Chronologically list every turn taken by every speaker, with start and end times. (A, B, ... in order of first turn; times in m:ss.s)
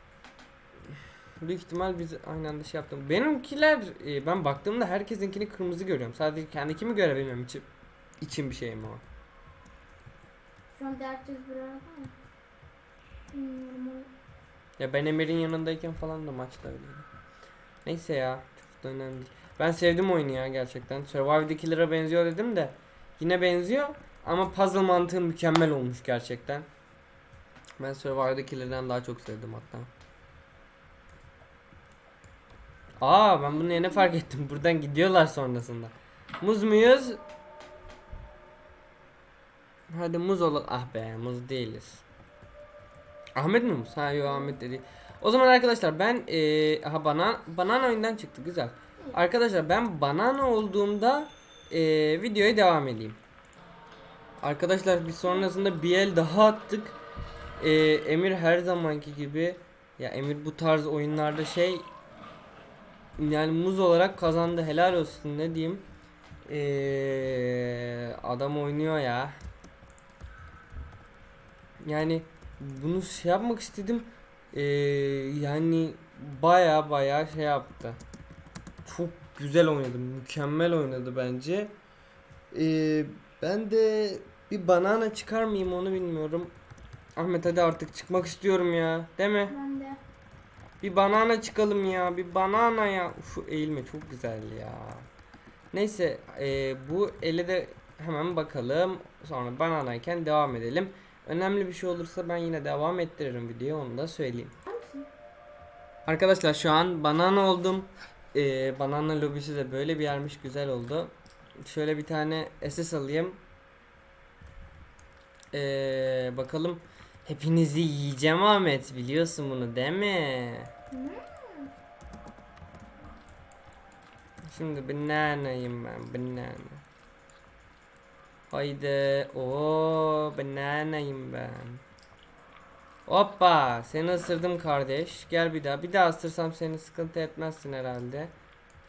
0:01.4-0:07.7 A
0:08.2-0:09.0 A
0:10.7-0:12.1 B
0:13.3-0:14.1 B
0:14.8-0:17.1 A
0:17.8-0:26.7 A
0:27.8-0:29.9 A
0:33.0-0:37.2 A
0:33.5-0:34.1 B
0:39.9-0:42.0 A
0:43.4-0:53.2 A
0:44.3-0:44.6 B
0:54.4-0:57.0 A
0:57.6-1:01.9 A
1:03.2-1:05.9 A
1:06.5-1:09.4 A
1:11.8-1:18.0 A
1:18.9-1:21.7 A
1:22.5-1:26.5 A
1:27.2-1:29.6 A
1:29.5-1:30.0 B
1:30.8-1:35.1 A
1:35.7-1:44.5 A
1:44.6-1:45.1 B
1:46.1-1:53.4 A
1:55.5-2:00.7 A
2:00.9-2:01.7 B
2:04.5-2:06.8 A
2:08.5-2:11.8 A
2:13.1-2:18.3 A